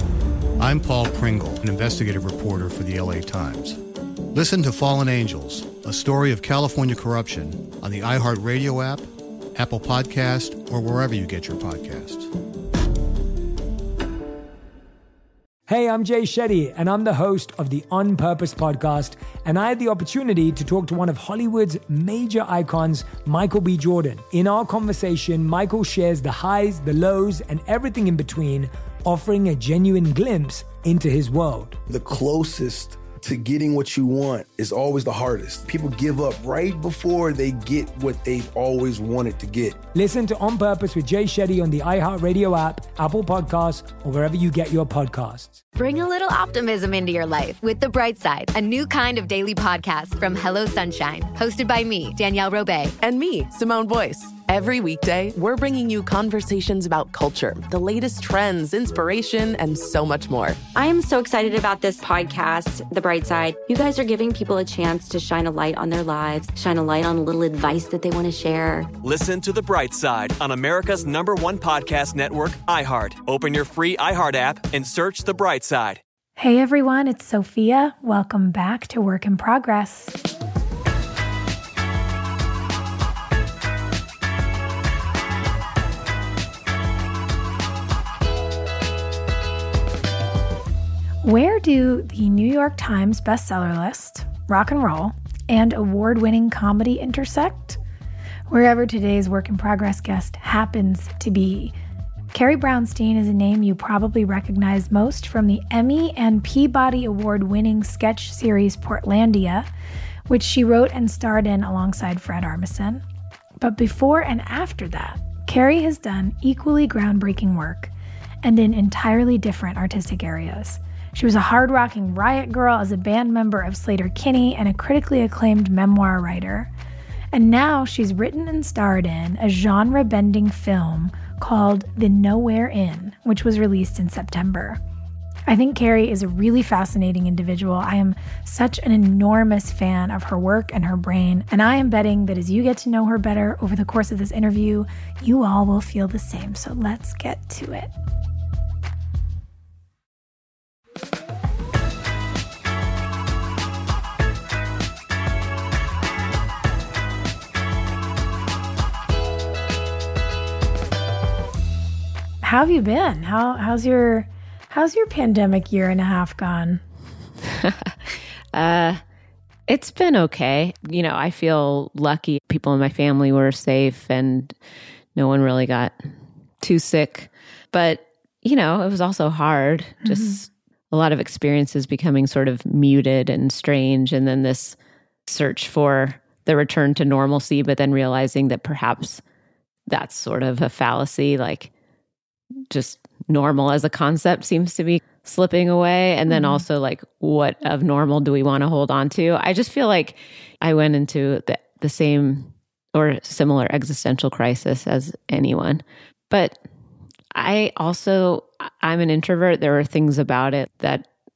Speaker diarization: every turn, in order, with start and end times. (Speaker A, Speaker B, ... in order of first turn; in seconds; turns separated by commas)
Speaker A: 0.6-3.8, Speaker A: 4.3-12.3, Speaker B: 15.7-31.8, Speaker C: 31.9-39.8, Speaker B: 39.9-45.6, Speaker D: 45.8-52.9, Speaker E: 53.0-60.7, Speaker F: 60.7-68.9, Speaker G: 69.0-76.0, Speaker H: 76.4-80.2, Speaker H: 91.2-97.8, Speaker H: 98.5-101.8, Speaker H: 102.3-109.7, Speaker H: 110.3-113.0, Speaker H: 113.6-117.9, Speaker H: 118.4-126.7, Speaker H: 127.3-134.8, Speaker H: 135.5-147.9, Speaker H: 162.4-166.8, Speaker I: 167.4-168.0, Speaker I: 168.5-169.0, Speaker I: 169.7-174.5, Speaker I: 175.2-176.0, Speaker I: 176.6-189.2, Speaker H: 180.0-180.4, Speaker I: 189.9-191.7, Speaker I: 192.7-206.6, Speaker H: 196.3-196.6, Speaker I: 207.3-211.1